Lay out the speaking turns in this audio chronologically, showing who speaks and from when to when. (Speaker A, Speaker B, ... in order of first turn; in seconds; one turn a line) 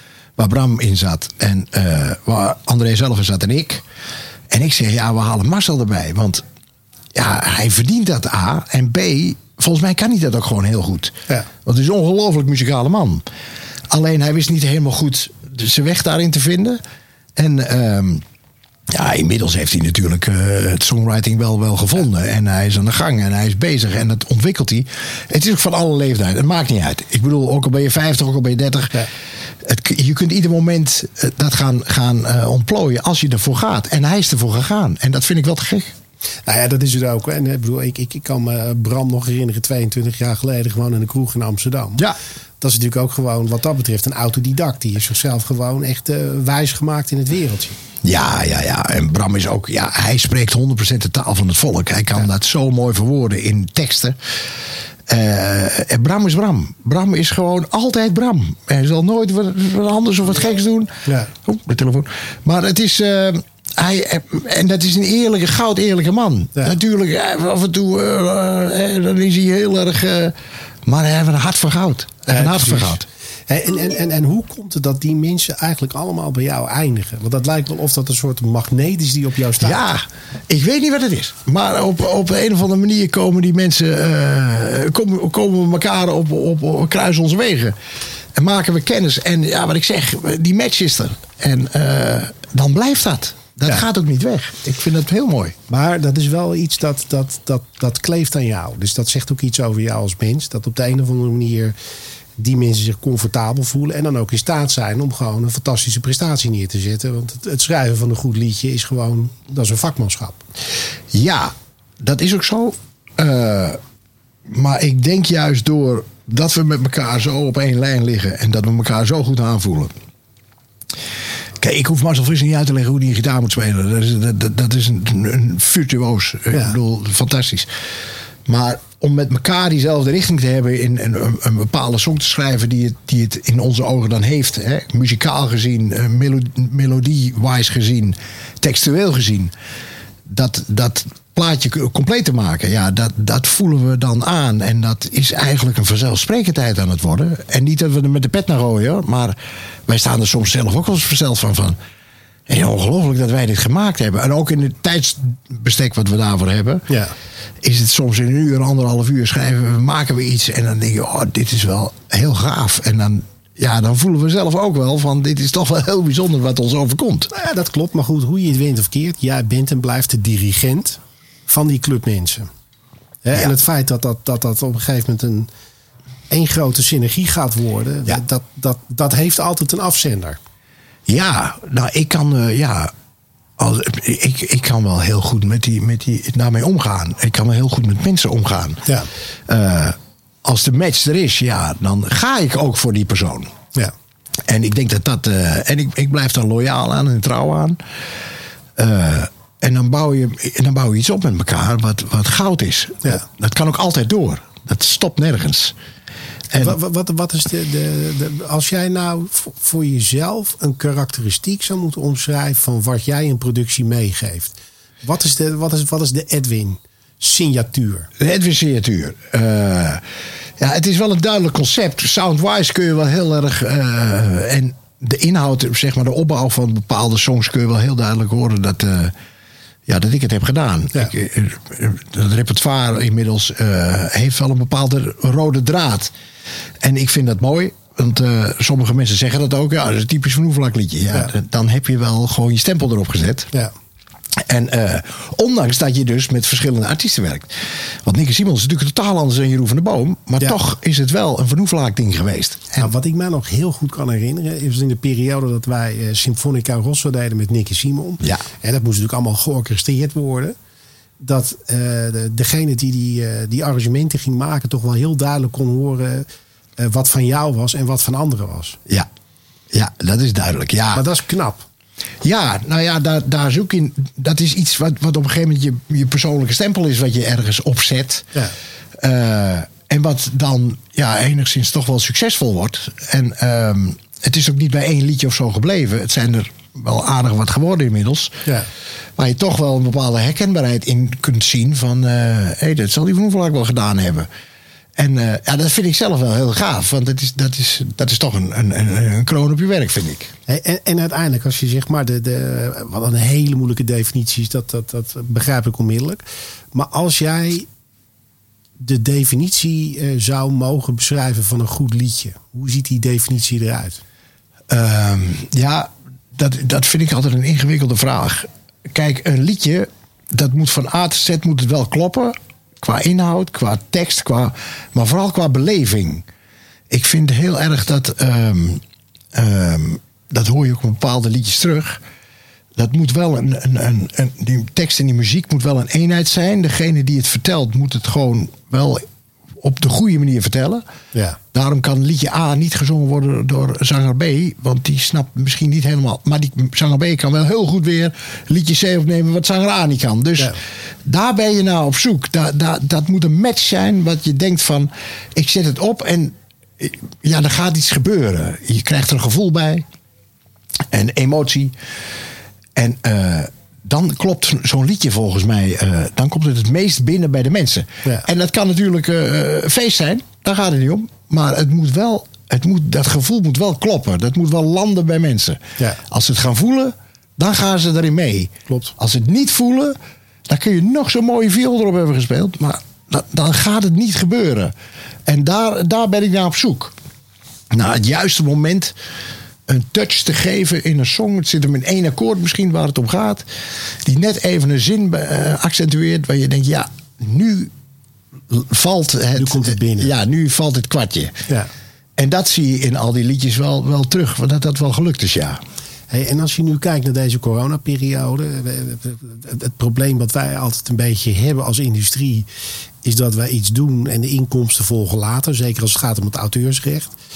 Speaker A: 0.4-3.8
Speaker A: 4.5-6.4
Speaker A: 7.1-13.2
Speaker A: 13.9-16.8
Speaker A: 17.4-18.2
Speaker A: 18.9-29.1
Speaker A: 29.6-35.9
Speaker B: 36.5-42.0
Speaker B: 42.6-47.8
Speaker A: 48.0-54.1
Speaker A: 55.1-73.0
Speaker B: 72.3-79.8
Speaker A: 79.6-87.7
Speaker A: 88.3-95.5
Speaker B: 95.7-101.7
Speaker B: 102.4-110.4
Speaker A: 111.1-113.8
Speaker A: 114.5-119.9
Speaker A: 121.6-127.7
Speaker A: 128.4-139.5
Speaker A: 140.3-149.4
Speaker A: 149.9-151.8
Speaker A: 152.5-156.9
Speaker B: 156.9-157.1
Speaker A: 157.6-167.3
Speaker B: 167.3-172.5
Speaker B: 173.2-175.5
Speaker B: 176.3-180.4
Speaker A: 181.1-182.9
Speaker A: 183.6-188.9
Speaker A: 189.5-193.5
Speaker A: 194.4-197.8
Speaker A: 198.8-205.7
Speaker B: 206.6-218.1
Speaker A: 218.2-220.0
Speaker A: 220.6-229.1
Speaker A: 229.9-236.1
Speaker A: 236.8-243.5
Speaker A: 244.4-252.9
Speaker B: 252.8-260.6
Speaker B: 261.2-266.2
Speaker B: 266.8-268.8
Speaker A: 269.7-271.0
Speaker B: 270.9-271.6
Speaker A: 272.2-278.3
Speaker A: 279.0-288.4
Speaker A: 289.2-294.3
Speaker A: 294.9-300.3
Speaker B: 300.5-306.2
Speaker B: 306.7-307.7
Speaker B: 308.8-314.0
Speaker A: 314.7-326.2
Speaker A: 326.9-328.8
Speaker A: 329.3-332.0
Speaker A: 332.8-339.0
Speaker A: 339.6-340.8
Speaker A: 341.5-359.9
Speaker A: 360.9-361.7
Speaker A: 362.7-380.0
Speaker B: 378.7-378.9
Speaker A: 380.5-384.7
Speaker A: 385.2-386.9
Speaker A: 387.7-388.9
Speaker A: 389.7-393.4
Speaker A: 394.0-397.7
Speaker A: 398.5-401.4
Speaker B: 399.4-400.1
Speaker A: 402.2-405.6
Speaker B: 406.1-412.5
Speaker B: 413.0-417.1